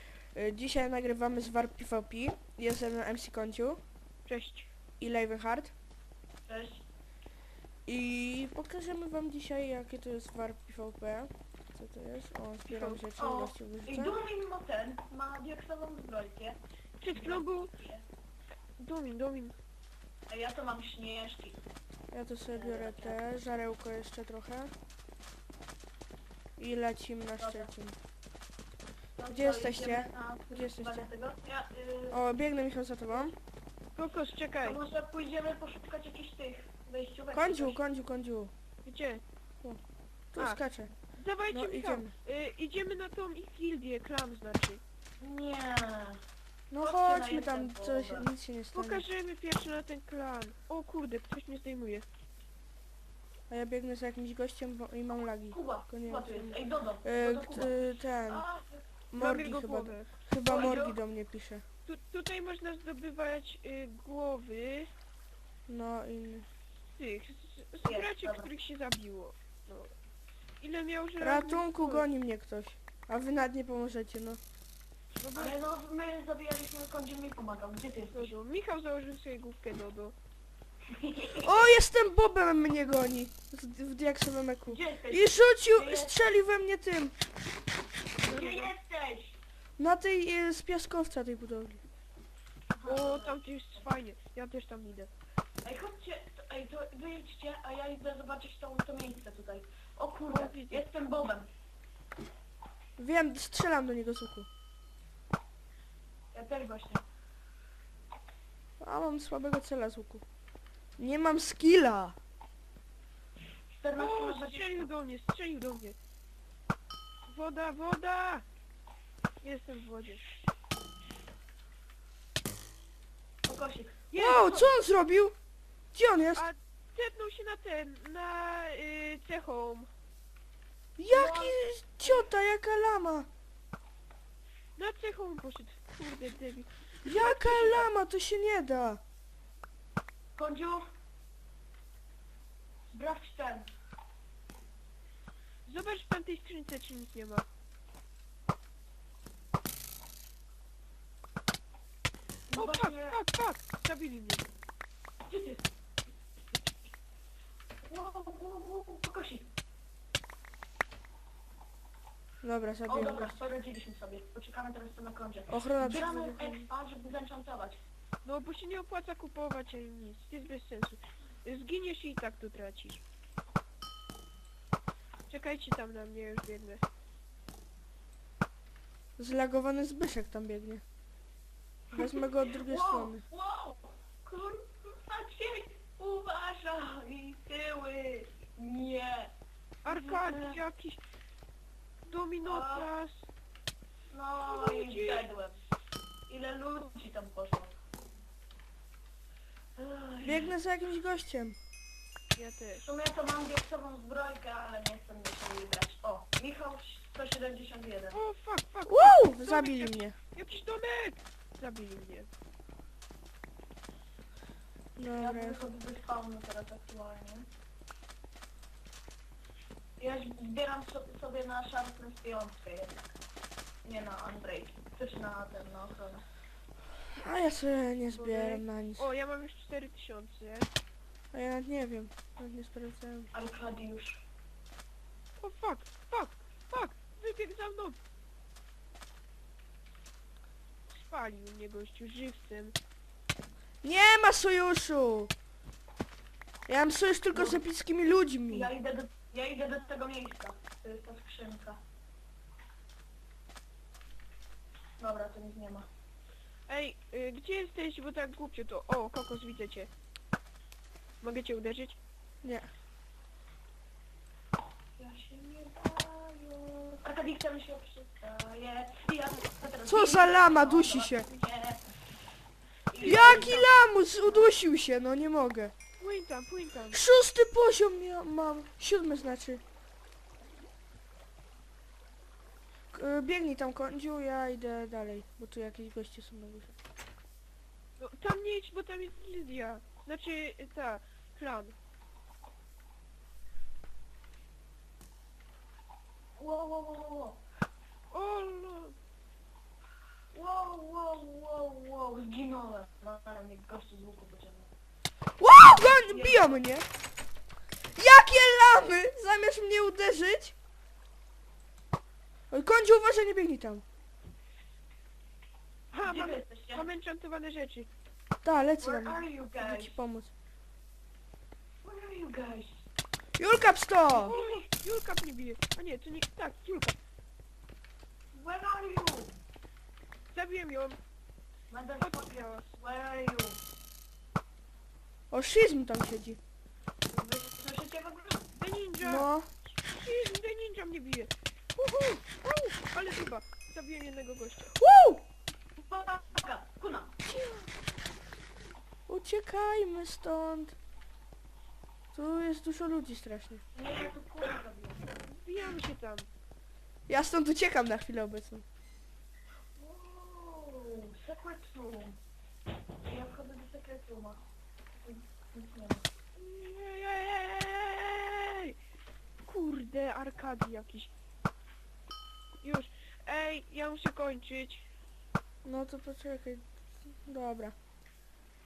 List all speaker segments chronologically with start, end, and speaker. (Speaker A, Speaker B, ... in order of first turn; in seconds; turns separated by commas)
Speaker A: 0.3-3.8, Speaker B: 4.3-4.7, Speaker A: 5.0-5.7, Speaker C: 6.5-6.8, Speaker A: 7.8-14.2, Speaker B: 12.7-13.0, Speaker C: 13.2-18.0, Speaker B: 17.0-17.7, Speaker B: 18.8-19.6, Speaker C: 20.3-21.6, Speaker A: 22.1-24.7, Speaker C: 22.5-23.2, Speaker A: 26.6-27.9, Speaker C: 27.4-27.7, Speaker C: 29.2-32.2, Speaker A: 29.3-31.1, Speaker A: 32.1-33.4, Speaker B: 34.0-34.8, Speaker C: 34.6-37.8, Speaker A: 37.3-38.5, Speaker B: 38.8-39.2, Speaker A: 40.3-40.9, Speaker B: 41.2-44.8, Speaker A: 41.5-42.1, Speaker C: 45.2-46.2, Speaker A: 46.7-49.0, Speaker C: 46.8-48.3, Speaker B: 48.7-52.0, Speaker A: 53.5-58.4, Speaker C: 55.5-58.8, Speaker A: 59.1-61.6, Speaker B: 59.1-60.1, Speaker C: 60.4-61.0, Speaker B: 61.9-64.9, Speaker A: 65.7-66.5, Speaker B: 66.9-69.9, Speaker C: 67.8-68.5, Speaker B: 70.6-72.1, Speaker A: 71.2-74.4, Speaker B: 75.2-75.5, Speaker C: 75.3-78.3, Speaker B: 78.1-80.1, Speaker C: 80.9-81.6, Speaker A: 81.4-87.2, Speaker C: 84.7-86.1, Speaker B: 88.2-88.7, Speaker C: 88.2-89.4, Speaker A: 89.8-91.8, Speaker C: 92.7-93.4, Speaker B: 92.8-95.1, Speaker C: 95.6-101.5, Speaker B: 100.3-100.8, Speaker A: 103.0-104.5, Speaker C: 106.3-107.0, Speaker A: 108.8-110.2, Speaker A: 111.0-112.2, Speaker C: 113.7-114.7, Speaker B: 114.0-116.0, Speaker B: 117.3-118.5, Speaker B: 119.4-120.2, Speaker C: 123.5-124.7, Speaker A: 124.1-125.4, Speaker A: 125.9-126.5, Speaker B: 126.4-129.9, Speaker A: 131.0-133.3, Speaker C: 131.1-131.6, Speaker B: 134.8-137.9, Speaker A: 137.0-139.0, Speaker C: 140.4-140.9, Speaker C: 142.9-143.7, Speaker B: 145.7-147.4, Speaker C: 152.5-153.2, Speaker B: 152.6-154.4, Speaker C: 155.2-155.6, Speaker C: 157.8-159.5, Speaker A: 162.4-163.3, Speaker C: 162.9-167.8, Speaker A: 165.5-166.7, Speaker B: 168.2-173.0, Speaker B: 175.3-176.8, Speaker A: 179.2-180.8, Speaker A: 181.9-183.2, Speaker C: 181.9-189.3, Speaker B: 189.8-191.0, Speaker C: 189.9-190.6, Speaker B: 192.1-193.2, Speaker C: 192.4-192.9, Speaker C: 194.1-195.6, Speaker B: 194.4-195.3, Speaker C: 196.3-197.7, Speaker C: 199.8-200.5, Speaker A: 200.2-201.6, Speaker B: 202.3-202.8, Speaker C: 202.8-208.2, Speaker B: 208.1-212.3, Speaker A: 208.9-210.2, Speaker A: 215.0-215.6, Speaker C: 215.1-217.5, Speaker C: 220.0-223.0, Speaker C: 223.8-226.2, Speaker A: 227.0-229.1, Speaker B: 228.1-230.7, Speaker A: 231.3-233.3, Speaker C: 233.3-234.2, Speaker B: 235.4-238.0, Speaker B: 240.9-242.8, Speaker A: 243.8-245.3, Speaker A: 246.7-248.7, Speaker C: 248.5-251.8, Speaker C: 255.0-255.9, Speaker B: 256.7-259.9, Speaker B: 261.2-262.0, Speaker A: 262.4-262.7, Speaker C: 265.0-271.9, Speaker A: 269.9-271.3, Speaker C: 272.9-273.6, Speaker B: 273.0-273.7, Speaker A: 273.0-275.7, Speaker C: 274.2-274.5, Speaker B: 276.0-277.0, Speaker A: 276.9-279.6, Speaker A: 282.9-286.8, Speaker B: 288.0-291.8, Speaker C: 296.4-297.4, Speaker B: 298.1-299.0, Speaker C: 300.3-304.7, Speaker A: 305.4-306.9, Speaker C: 305.9-306.5, Speaker A: 307.9-310.6, Speaker A: 312.5-313.8, Speaker B: 315.9-317.9, Speaker C: 316.0-316.9, Speaker A: 318.4-320.3, Speaker C: 318.8-320.0, Speaker C: 321.8-322.8, Speaker A: 323.4-324.4, Speaker B: 324.1-327.0, Speaker C: 324.2-324.6, Speaker C: 328.3-329.3, Speaker B: 330.3-331.0, Speaker C: 331.7-333.6, Speaker B: 332.0-332.7, Speaker A: 335.3-336.4, Speaker C: 337.1-338.5, Speaker B: 338.5-339.3, Speaker A: 339.0-339.5, Speaker B: 339.8-344.8, Speaker A: 344.8-345.2, Speaker C: 345.8-347.2, Speaker A: 349.1-350.8, Speaker A: 352.1-353.6, Speaker C: 353.8-355.1, Speaker B: 355.3-356.3, Speaker A: 357.1-358.6, Speaker C: 359.8-362.2, Speaker C: 363.0-364.4, Speaker C: 365.0-366.1, Speaker B: 366.4-368.8, Speaker B: 369.5-371.1, Speaker B: 372.6-374.8, Speaker A: 375.6-377.8